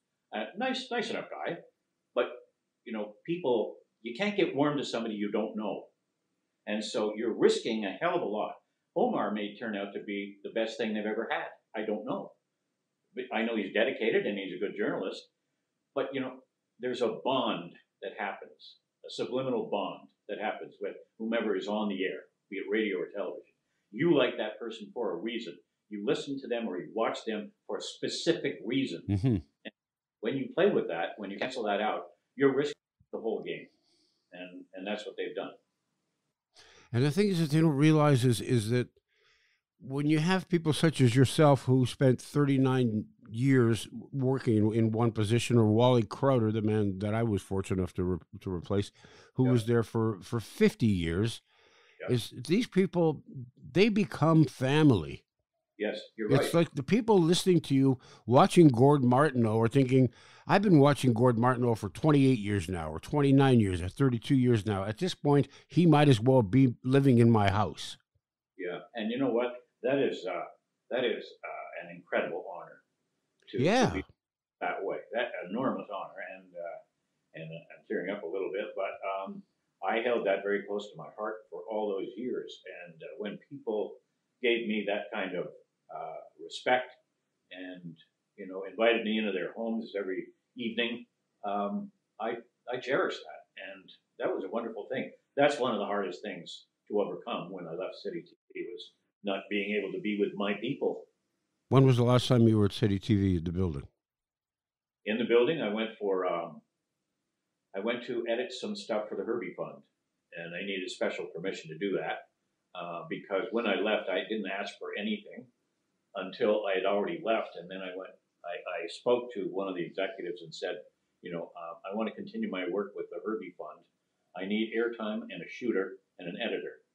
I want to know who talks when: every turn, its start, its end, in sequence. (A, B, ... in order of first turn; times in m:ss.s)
0:00.3-0:01.6 A
0:02.1-0:05.9 A
0:06.7-0:12.3 A
0:13.2-0:15.3 A
0:15.9-0:29.1 A
0:29.1-0:29.4 B
0:29.6-0:33.7 A
0:34.3-0:35.6 A
0:36.9-0:39.0 B
0:39.8-0:51.4 B
0:52.1-0:55.2 B
0:55.8-0:56.5 A
0:56.3-1:08.0 B
1:08.6-1:12.8 A
1:13.5-1:14.0 A
1:13.6-1:14.0 B
1:14.6-1:16.8 A
1:17.3-1:27.0 A
1:27.5-1:41.1 A
1:41.7-1:43.9 B
1:45.0-1:46.6 A
1:47.7-1:52.2 A
1:52.7-1:55.5 A
1:56.2-2:06.8 A